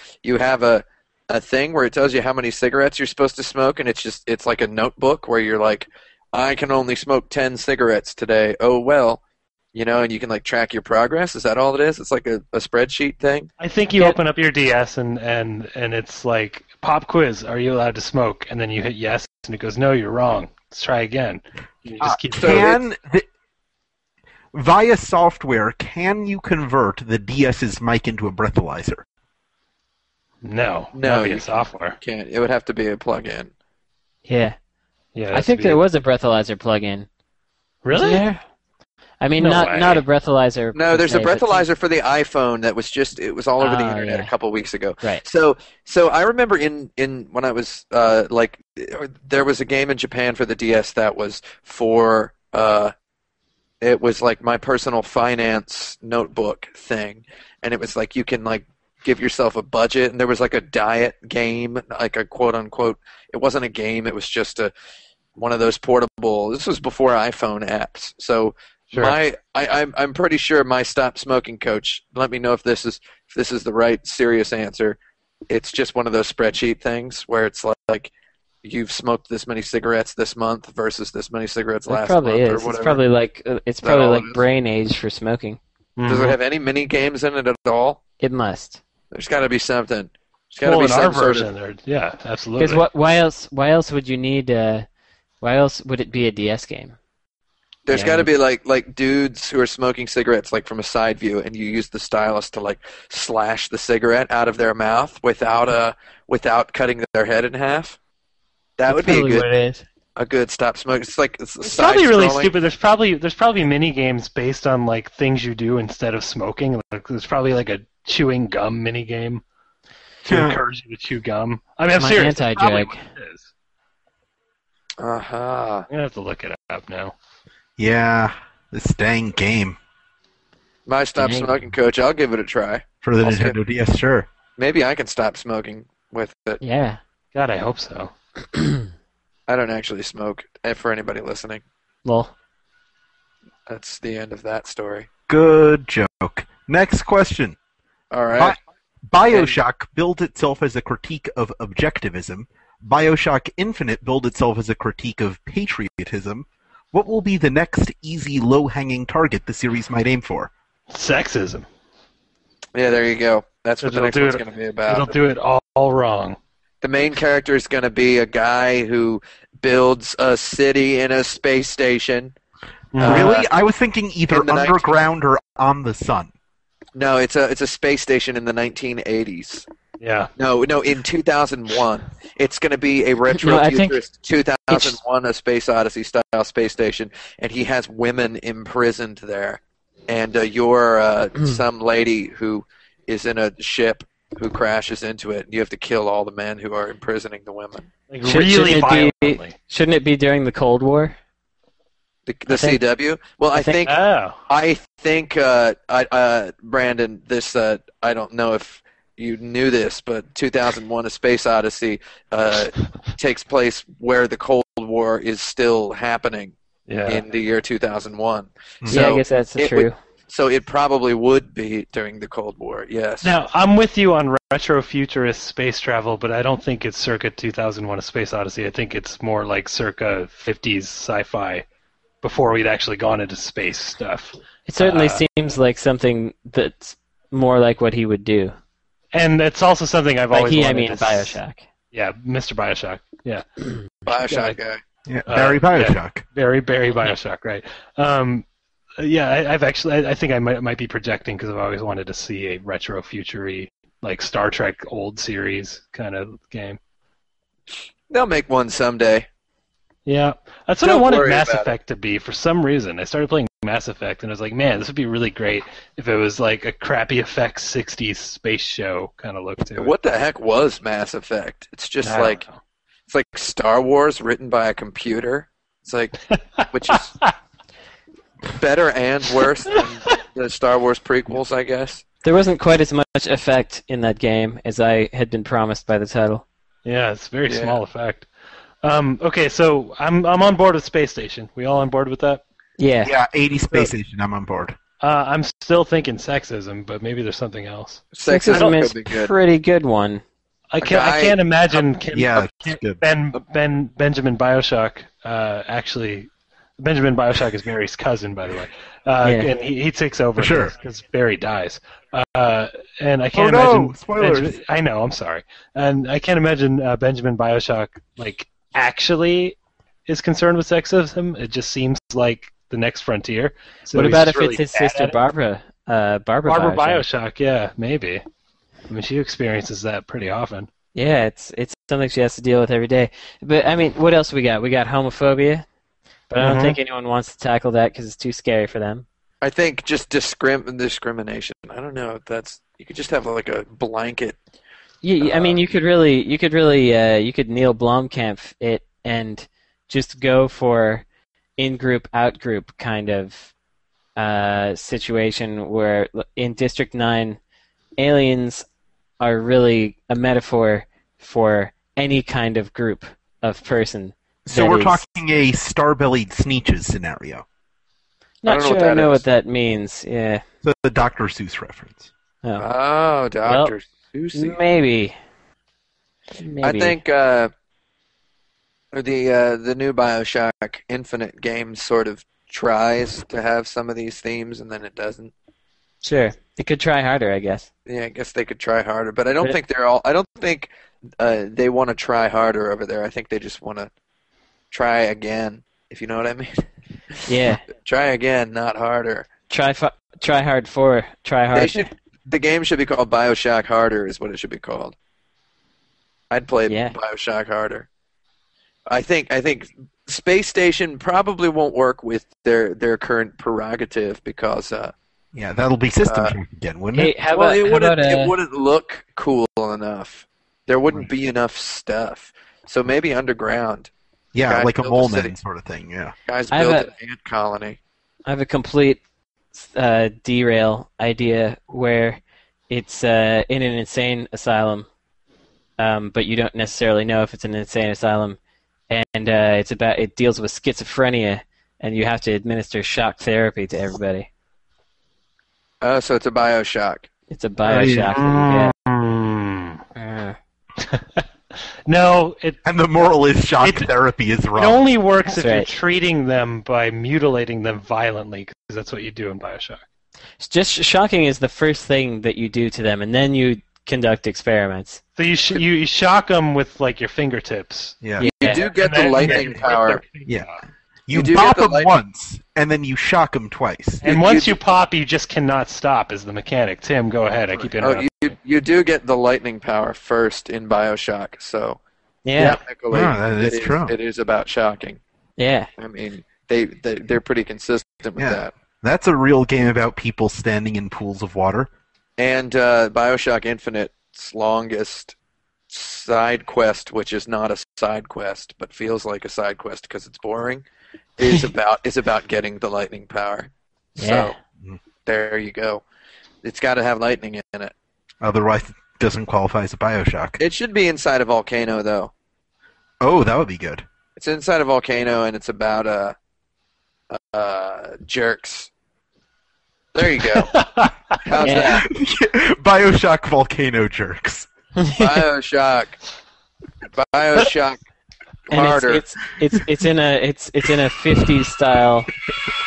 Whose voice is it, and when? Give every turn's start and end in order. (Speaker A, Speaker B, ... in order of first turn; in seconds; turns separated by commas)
Speaker A: 0.2-9.2, Speaker A: 9.7-13.5, Speaker B: 13.6-22.7, Speaker C: 22.0-23.2, Speaker A: 22.3-22.8, Speaker C: 24.5-29.0, Speaker B: 30.4-32.0, Speaker A: 30.9-33.5, Speaker D: 34.2-34.5, Speaker B: 35.1-35.8, Speaker D: 35.3-37.1, Speaker B: 37.8-38.2, Speaker D: 37.9-38.4, Speaker D: 39.2-41.6, Speaker B: 39.4-40.0, Speaker A: 40.7-52.9, Speaker D: 43.6-44.3, Speaker A: 53.8-64.7, Speaker A: 65.4-75.0, Speaker A: 75.5-78.1, Speaker A: 78.6-83.0, Speaker D: 81.9-85.6, Speaker A: 83.8-84.4, Speaker B: 86.0-86.4, Speaker A: 86.0-88.0, Speaker D: 88.2-88.8, Speaker A: 89.1-91.5, Speaker B: 90.6-92.8, Speaker D: 92.6-94.8, Speaker D: 95.4-96.9, Speaker A: 97.9-108.0, Speaker D: 97.9-98.3, Speaker A: 108.8-109.5, Speaker D: 108.9-109.8, Speaker A: 110.2-112.5, Speaker B: 111.6-119.4, Speaker B: 120.2-123.5, Speaker C: 120.2-120.6, Speaker D: 121.9-123.0, Speaker A: 125.0-125.8, Speaker B: 125.9-127.1, Speaker C: 127.8-129.8, Speaker A: 130.8-133.6, Speaker D: 131.2-131.5, Speaker C: 133.0-134.3, Speaker A: 134.6-136.6, Speaker D: 136.6-137.0, Speaker B: 137.3-138.1, Speaker D: 138.5-138.9, Speaker A: 139.5-141.6, Speaker D: 142.0-142.3, Speaker A: 143.7-145.1, Speaker C: 145.3-147.6, Speaker A: 148.1-148.6, Speaker C: 148.4-160.5, Speaker A: 149.3-149.6, Speaker B: 160.9-161.7, Speaker A: 162.7-165.1, Speaker B: 163.8-166.4, Speaker A: 166.8-172.3, Speaker B: 172.9-173.4, Speaker A: 173.0-173.4, Speaker C: 173.0-176.3, Speaker A: 174.3-174.9, Speaker A: 176.9-179.7, Speaker B: 180.0-180.3, Speaker A: 180.4-197.9, Speaker D: 183.3-184.0, Speaker D: 184.7-185.0, Speaker B: 198.1-199.5, Speaker D: 198.2-201.2, Speaker A: 202.3-203.9, Speaker D: 202.5-202.8, Speaker D: 203.5-203.8, Speaker B: 203.8-204.4, Speaker A: 204.5-216.5, Speaker B: 216.9-217.2, Speaker A: 217.1-223.3, Speaker D: 218.9-219.9, Speaker B: 223.2-231.6, Speaker B: 232.2-235.2, Speaker D: 234.7-238.5, Speaker B: 239.1-241.4, Speaker D: 240.3-241.6, Speaker B: 241.9-244.6, Speaker A: 244.1-244.8, Speaker C: 245.1-246.2, Speaker B: 245.3-248.4, Speaker B: 249.0-256.8, Speaker A: 258.1-259.2, Speaker B: 260.1-269.9, Speaker A: 260.8-261.7, Speaker A: 269.8-272.4, Speaker B: 272.0-272.6, Speaker A: 273.1-277.1, Speaker A: 278.5-282.0, Speaker D: 282.2-286.4, Speaker B: 286.8-288.3, Speaker A: 287.5-287.8, Speaker B: 288.8-292.4, Speaker D: 292.8-293.1, Speaker C: 293.0-294.8, Speaker B: 295.0-298.7, Speaker A: 298.1-299.3, Speaker D: 298.2-300.2, Speaker B: 300.7-325.1, Speaker A: 300.8-301.4, Speaker C: 302.1-303.0, Speaker D: 309.2-309.5, Speaker C: 310.4-310.7, Speaker C: 313.3-314.6, Speaker D: 323.9-327.0, Speaker B: 326.5-328.2, Speaker B: 328.9-330.7, Speaker D: 330.9-335.6, Speaker D: 336.3-339.1, Speaker B: 336.4-336.8, Speaker A: 339.4-344.4, Speaker D: 345.0-351.0, Speaker A: 345.2-345.6, Speaker D: 351.6-353.5, Speaker D: 354.1-357.4, Speaker D: 358.0-358.6, Speaker D: 359.2-365.0, Speaker C: 364.4-367.4, Speaker D: 368.4-370.4, Speaker A: 368.4-369.2, Speaker C: 370.6-372.1, Speaker A: 372.6-374.6, Speaker D: 373.4-373.7, Speaker D: 374.3-375.1, Speaker D: 376.4-377.0, Speaker A: 376.6-377.5, Speaker A: 378.9-385.3, Speaker D: 386.0-387.7, Speaker A: 387.9-393.9, Speaker A: 394.7-396.6, Speaker D: 397.2-397.6, Speaker A: 397.7-399.3, Speaker D: 399.5-401.9, Speaker A: 401.5-404.9, Speaker A: 406.3-407.9, Speaker D: 406.7-406.9, Speaker A: 408.9-414.9, Speaker C: 415.3-417.1, Speaker A: 416.0-416.3, Speaker D: 416.9-418.3, Speaker A: 417.3-423.9, Speaker C: 424.3-426.1, Speaker A: 424.4-425.3, Speaker A: 426.3-427.8, Speaker D: 426.5-426.9, Speaker D: 428.2-429.0, Speaker D: 429.5-434.9, Speaker D: 435.8-438.4, Speaker D: 438.9-444.3, Speaker A: 445.8-447.1, Speaker D: 447.3-448.7, Speaker C: 447.7-448.1, Speaker B: 447.8-449.8, Speaker D: 449.9-450.4, Speaker B: 450.8-451.2, Speaker B: 451.9-452.6, Speaker C: 452.6-454.9, Speaker B: 453.6-453.9, Speaker B: 454.5-459.8, Speaker D: 455.3-455.7, Speaker D: 460.4-465.0, Speaker B: 465.1-470.6, Speaker C: 468.0-468.3, Speaker D: 468.2-468.7, Speaker A: 468.4-470.0, Speaker C: 471.1-474.0, Speaker A: 471.1-471.9, Speaker B: 474.0-478.3, Speaker A: 474.0-474.6, Speaker A: 477.8-481.8, Speaker D: 482.2-482.6, Speaker A: 482.4-485.0, Speaker C: 482.4-483.9, Speaker D: 485.4-485.7, Speaker A: 485.8-488.5, Speaker C: 488.2-491.7, Speaker A: 492.2-495.1, Speaker A: 495.7-500.6, Speaker A: 501.2-504.3, Speaker D: 504.0-504.3, Speaker A: 505.0-505.8, Speaker A: 506.4-507.7, Speaker C: 508.2-510.4, Speaker A: 510.4-512.1, Speaker C: 513.0-513.8, Speaker A: 514.1-516.1, Speaker A: 517.1-518.7, Speaker A: 519.9-520.6, Speaker B: 520.3-521.0, Speaker A: 521.1-521.9, Speaker D: 521.4-521.8, Speaker C: 521.5-524.5, Speaker D: 524.8-525.2, Speaker A: 525.0-526.0, Speaker A: 526.9-527.8, Speaker A: 528.5-529.0, Speaker D: 528.5-532.1